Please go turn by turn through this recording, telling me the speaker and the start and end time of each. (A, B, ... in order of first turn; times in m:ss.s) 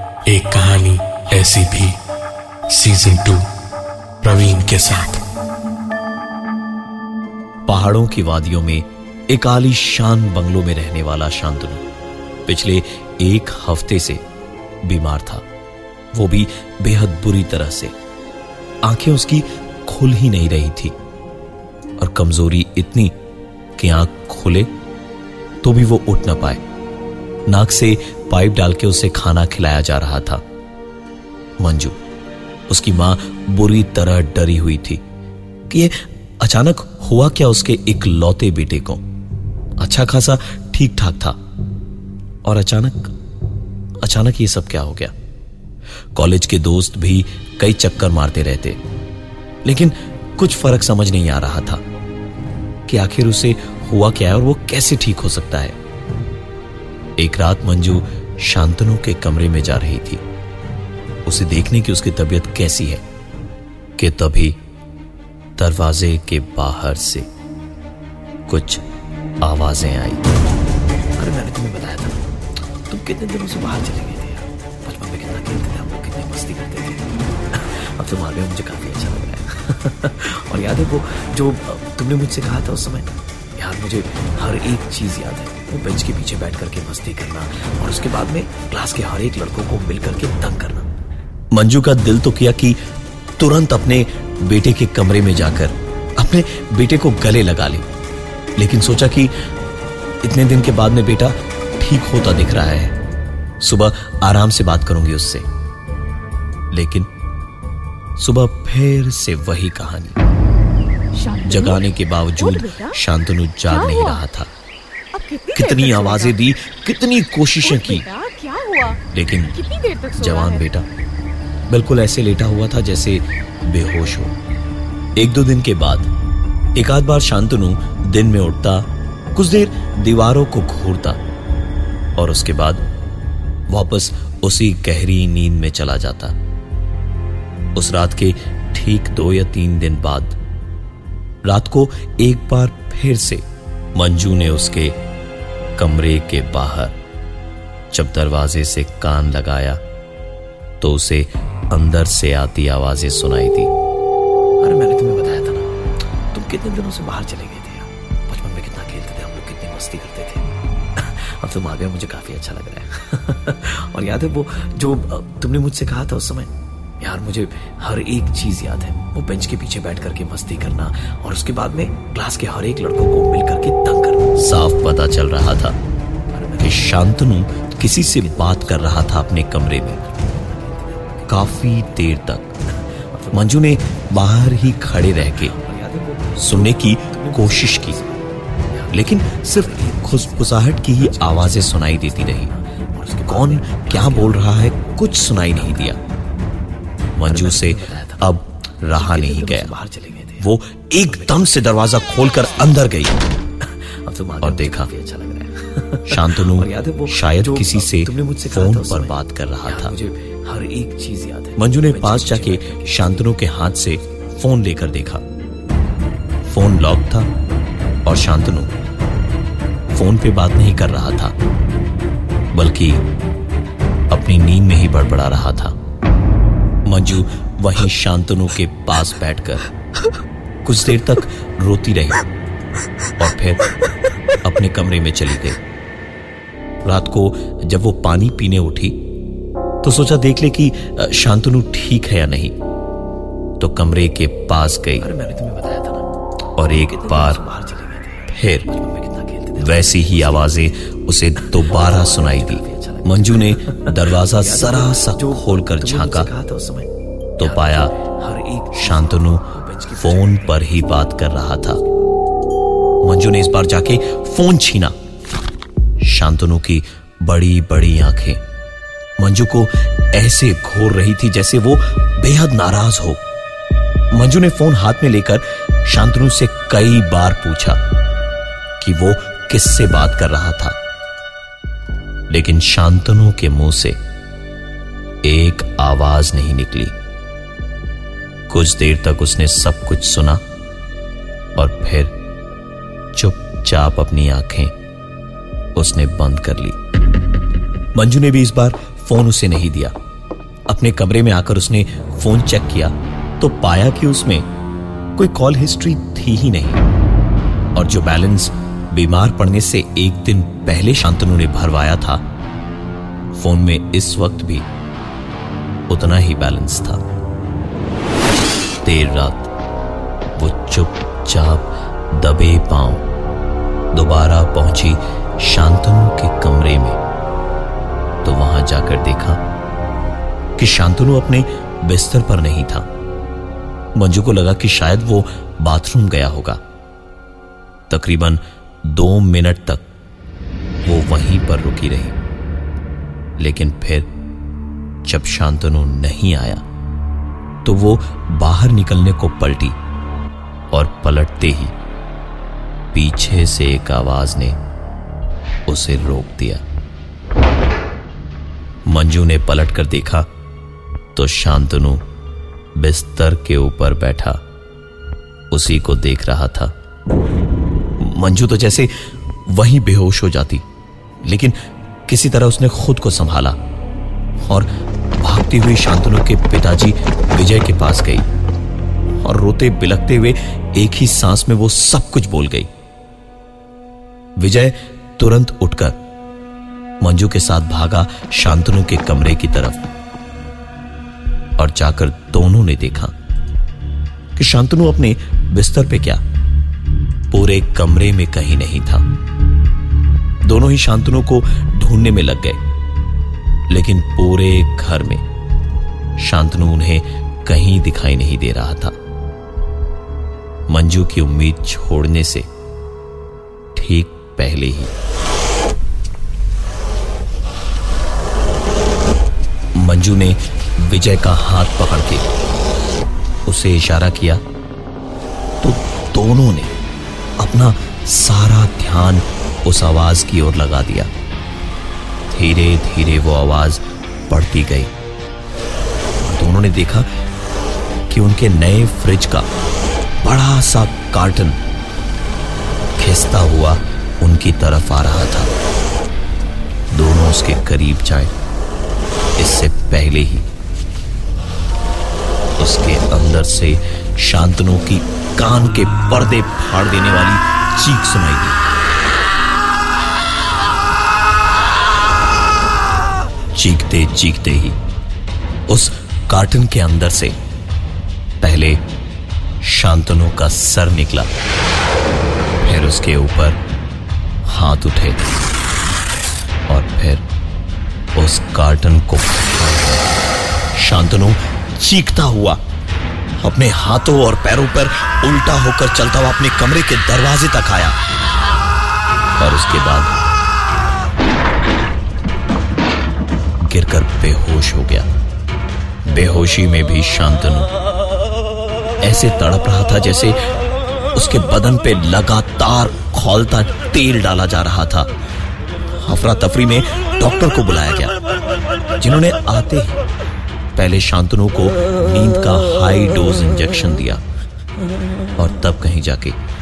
0:00.3-0:02.0 A
0:02.7-0:03.4 A
0:04.2-0:05.2 A
0:07.6-0:11.8 B
0:12.4-0:14.2 B
0:14.8-0:15.4 B
0:16.1-0:17.9 B
0:18.8-0:20.9 B
0:22.0-0:23.1 B
0:23.8-0:24.7 B
0:25.6-0:26.6 B
0:27.5-0:30.4 B
0:31.6-0:32.0 B
0:32.7-0:35.0 B
0:35.7-0:39.0 B
0:39.8-0:41.4 B
0:42.4-0:43.1 B
0:44.0-0:45.1 B
0:46.2-0:48.8 B
0:49.6-0:51.8 B
0:52.9-0:55.8 B
0:57.2-1:00.2 B
1:01.2-1:03.0 B
1:04.0-1:04.6 B
1:05.6-1:07.3 B
1:08.5-1:08.8 B
1:09.4-1:10.2 B
1:11.2-1:12.2 C
1:12.9-1:30.9 C
1:31.5-1:32.8 B
1:33.4-1:37.8 B
1:38.6-1:39.3 B
1:40.2-1:42.9 B
1:43.6-1:45.4 B
1:46.7-1:47.1 B
1:48.2-1:50.2 B
1:51.1-1:53.0 D
1:51.4-1:54.5 B
1:53.6-1:54.2 D
1:55.1-1:56.4 D
1:55.5-1:58.1 B
1:57.6-1:59.0 D
1:59.1-1:59.6 B
1:59.5-2:00.6 D
2:00.2-2:00.8 B
2:01.7-2:04.3 B
2:05.2-2:06.1 B
2:06.7-2:11.2 B
2:12.2-2:12.8 B
2:13.7-2:16.3 B
2:17.8-2:20.4 B
2:21.4-2:23.4 B
2:24.0-2:25.0 B
2:25.8-2:26.9 B
2:27.9-2:29.8 B
2:30.8-2:33.7 B
2:34.6-2:35.7 C
2:36.3-2:54.4 C
2:54.4-2:55.8 B
2:56.3-3:16.0 C
2:56.6-3:00.0 B
3:01.3-3:02.5 B
3:03.3-3:05.5 B
3:06.4-3:08.0 B
3:08.9-3:12.5 B
3:13.3-3:16.0 B
3:17.2-3:19.7 B
3:17.3-3:18.4 C
3:19.0-3:21.5 C
3:20.4-3:23.2 B
3:23.6-3:29.1 C
3:24.4-3:24.9 B
3:26.1-3:29.9 B
3:29.6-3:33.3 C
3:31.6-3:35.2 B
3:36.5-3:37.3 B
3:38.0-3:38.7 B
3:39.9-3:41.3 B
3:42.5-3:43.0 B
3:44.1-3:45.7 B
3:46.8-3:49.7 B
3:50.6-3:52.2 B
3:53.2-3:53.6 B
3:54.4-3:55.6 B
3:56.8-3:59.0 B
3:59.8-4:02.5 B
4:03.6-4:05.1 B
4:05.0-4:06.1 C
4:06.6-4:07.4 B
4:06.8-4:10.6 C
4:08.3-4:08.7 B
4:09.6-4:16.3 B
4:11.4-4:16.9 C
4:17.4-4:17.9 B
4:17.4-4:21.3 C
4:18.7-4:21.8 B
4:23.0-4:24.9 B
4:26.0-4:28.4 B
4:29.2-4:33.2 B
4:34.1-4:37.8 B
4:38.8-4:40.7 B
4:42.3-4:44.0 B
4:45.2-4:46.9 B
4:48.5-4:50.4 B
4:51.6-4:52.1 B
4:53.1-4:54.7 B
4:55.8-4:56.8 B
4:58.0-4:59.9 B
5:00.7-5:04.4 B
5:05.2-5:06.8 B
5:07.7-5:12.2 B
5:13.4-5:14.6 B
5:15.9-5:17.0 B
5:18.8-5:19.5 B
5:20.4-5:23.0 B
5:23.9-5:27.0 B
5:28.2-5:29.4 B
5:30.6-5:32.8 B
5:34.0-5:36.6 B
5:37.9-5:39.8 B
5:40.8-5:42.2 B
5:43.4-5:44.1 B
5:45.0-5:46.6 B
5:47.6-5:49.8 B
5:50.7-5:51.7 B
5:52.9-5:54.6 B
5:55.7-5:56.6 B
5:58.9-6:00.3 B
6:01.1-6:02.0 B
6:02.8-6:04.4 B
6:05.5-6:06.7 B
6:08.0-6:08.9 B
6:09.5-6:10.6 B
6:11.2-6:11.5 B
6:12.1-6:13.6 B
6:14.4-6:18.2 B
6:19.2-6:22.7 B
6:24.4-6:26.0 B
6:27.0-6:29.8 B
6:31.6-6:33.1 B
6:34.4-6:36.2 B
6:37.3-6:39.0 B
6:40.4-6:42.6 B
6:43.7-6:45.2 B
6:46.2-6:48.9 B
6:50.7-6:52.5 B
6:53.7-6:54.9 B
6:59.8-7:02.3 B
7:03.4-7:04.4 B
7:05.6-7:06.7 B
7:07.4-7:11.1 B
7:12.3-7:14.9 B
7:16.2-7:17.1 B
7:18.1-7:19.5 B
7:20.2-7:21.6 B
7:23.0-7:25.5 B
7:26.9-7:28.3 B
7:29.4-7:30.4 B
7:32.6-7:38.6 B
7:43.5-7:44.8 B
7:45.7-7:47.3 B
7:48.4-7:48.8 B
7:49.6-7:51.3 B
7:52.6-7:53.6 B
7:54.4-7:55.3 B
7:56.7-7:57.2 B
7:58.2-8:00.2 B
8:00.7-8:02.6 B
8:03.4-8:08.0 B
8:09.4-8:10.2 B
8:13.6-8:15.1 B
8:16.1-8:17.7 B
8:19.0-8:20.4 B
8:21.1-8:25.1 B
8:26.0-8:28.2 B
8:29.0-8:30.0 B
8:30.8-8:34.2 B
8:35.4-8:36.4 B